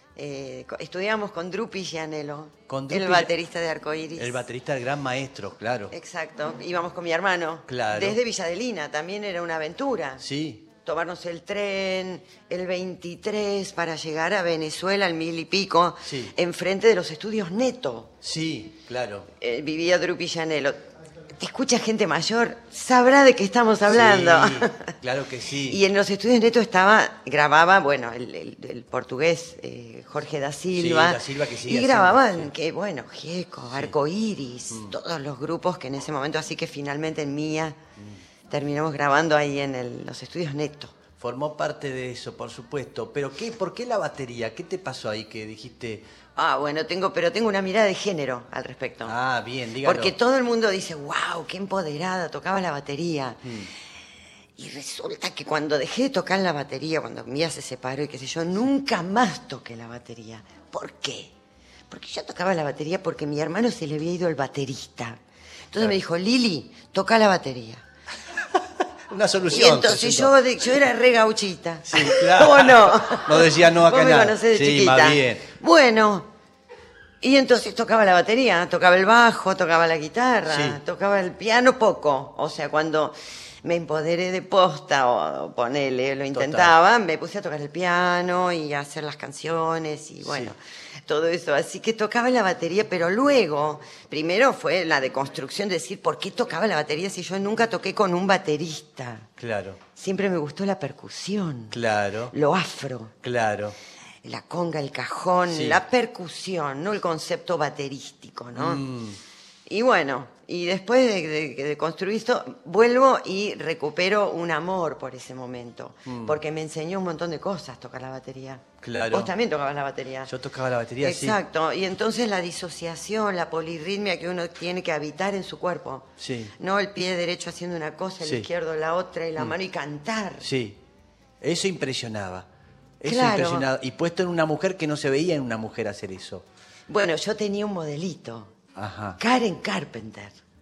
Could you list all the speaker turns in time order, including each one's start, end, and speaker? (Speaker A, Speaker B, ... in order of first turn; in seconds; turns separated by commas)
Speaker A: 0.2-4.5, Speaker B: 2.7-3.3, Speaker B: 4.2-5.9, Speaker A: 5.9-10.2, Speaker B: 7.7-8.2, Speaker B: 10.2-10.7, Speaker A: 10.8-18.1, Speaker B: 16.0-16.4, Speaker B: 18.2-19.3, Speaker A: 19.4-20.8, Speaker A: 21.4-24.9, Speaker B: 23.9-25.8, Speaker A: 25.6-37.8, Speaker B: 30.7-32.5, Speaker B: 33.7-34.0, Speaker A: 38.5-41.0, Speaker B: 41.2-46.0, Speaker A: 46.4-49.2, Speaker B: 49.0-50.2, Speaker A: 49.8-53.6, Speaker B: 53.5-53.7, Speaker A: 54.6-61.3, Speaker A: 61.9-67.8, Speaker B: 69.1-70.3, Speaker A: 69.5-76.3, Speaker B: 71.9-75.5, Speaker A: 77.2-99.3, Speaker B: 80.5-80.8, Speaker B: 86.3-86.7, Speaker B: 90.2-90.5, Speaker B: 99.4-99.8, Speaker A: 100.0-101.8, Speaker B: 101.7-102.3, Speaker A: 102.3-103.1, Speaker B: 103.2-103.8, Speaker A: 104.2-108.8, Speaker B: 105.5-105.8, Speaker B: 108.5-109.2, Speaker A: 109.7-120.3, Speaker B: 116.1-116.4, Speaker B: 118.8-119.3, Speaker B: 120.3-121.4, Speaker A: 121.0-126.1, Speaker B: 126.2-126.5, Speaker A: 126.6-130.5, Speaker B: 128.2-128.5, Speaker B: 130.4-130.8, Speaker B: 131.4-132.5, Speaker B: 133.0-136.4, Speaker A: 133.0-133.7, Speaker A: 136.9-138.5, Speaker B: 138.8-139.2, Speaker A: 139.2-140.4